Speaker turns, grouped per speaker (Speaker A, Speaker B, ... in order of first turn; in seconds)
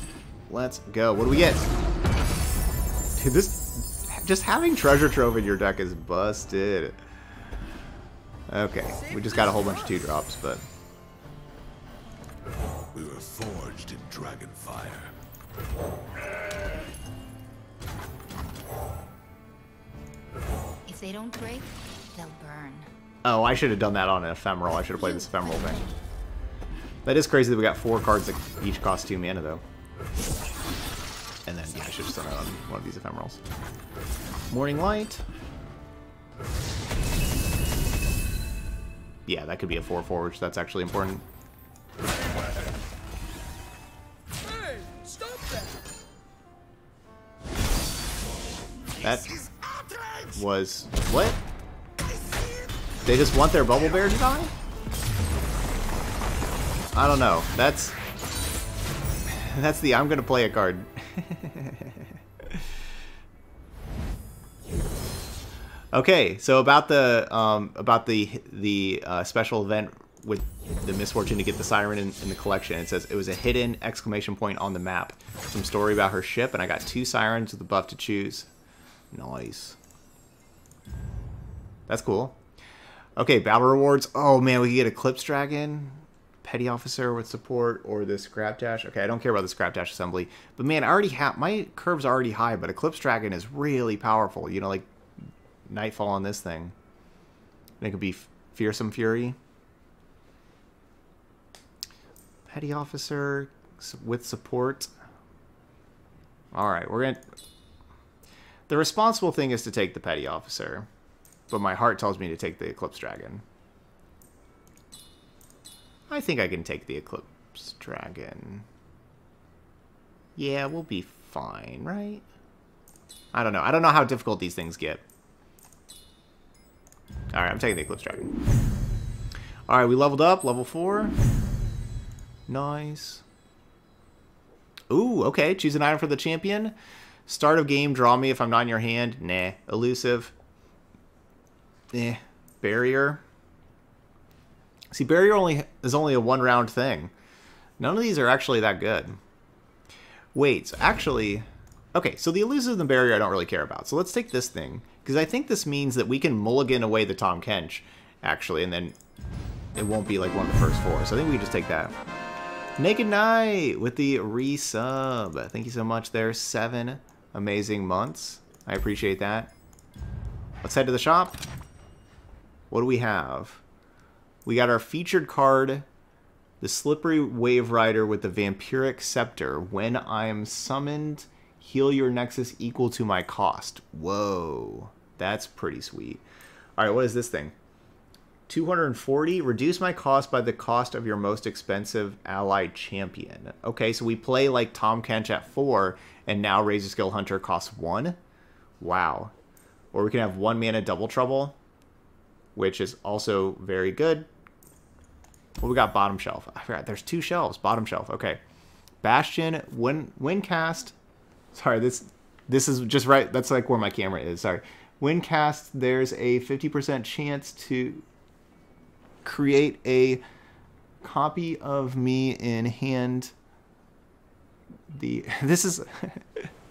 Speaker A: 0.5-1.7, 3.2-7.0, 8.5-10.6, 23.2-25.9, 27.1-29.6, 31.5-33.4, 34.5-35.2, 39.3-41.2, 49.0-49.4, 50.3-51.4, 53.0-54.5, 56.9-58.0, 59.3-62.6, 65.9-78.5, 79.1-79.8, 81.9-82.4, 83.2-94.9, 95.7-96.8, 97.8-99.4, 102.5-104.9, 106.5-107.3, 108.7-110.9, 111.5-113.4, 116.1-118.6, 120.4-122.2, 123.3-125.0, 127.3-128.3, 129.7-131.2, 132.5-133.2, 134.9-136.8, 137.3-140.3, 141.9-143.2, 144.9-147.1, 147.8-149.2, 150.3-158.9, 159.8-161.9, 162.8-169.5, 170.6-171.4, 172.7-173.6, 174.4-175.8, 176.6-186.2, 186.8-187.5, 188.5-198.2, 198.8-199.3, 199.9-201.6, 202.6-204.3, 205.6-208.4, 209.0-210.9, 211.5-218.1, 219.2-220.2, 221.0-223.3, 224.9-226.5
Speaker B: 9.2-9.5, 42.0-42.6, 44.5-45.8, 49.0-50.4, 52.0-52.7
Speaker C: 12.9-15.1
Speaker D: 20.9-22.9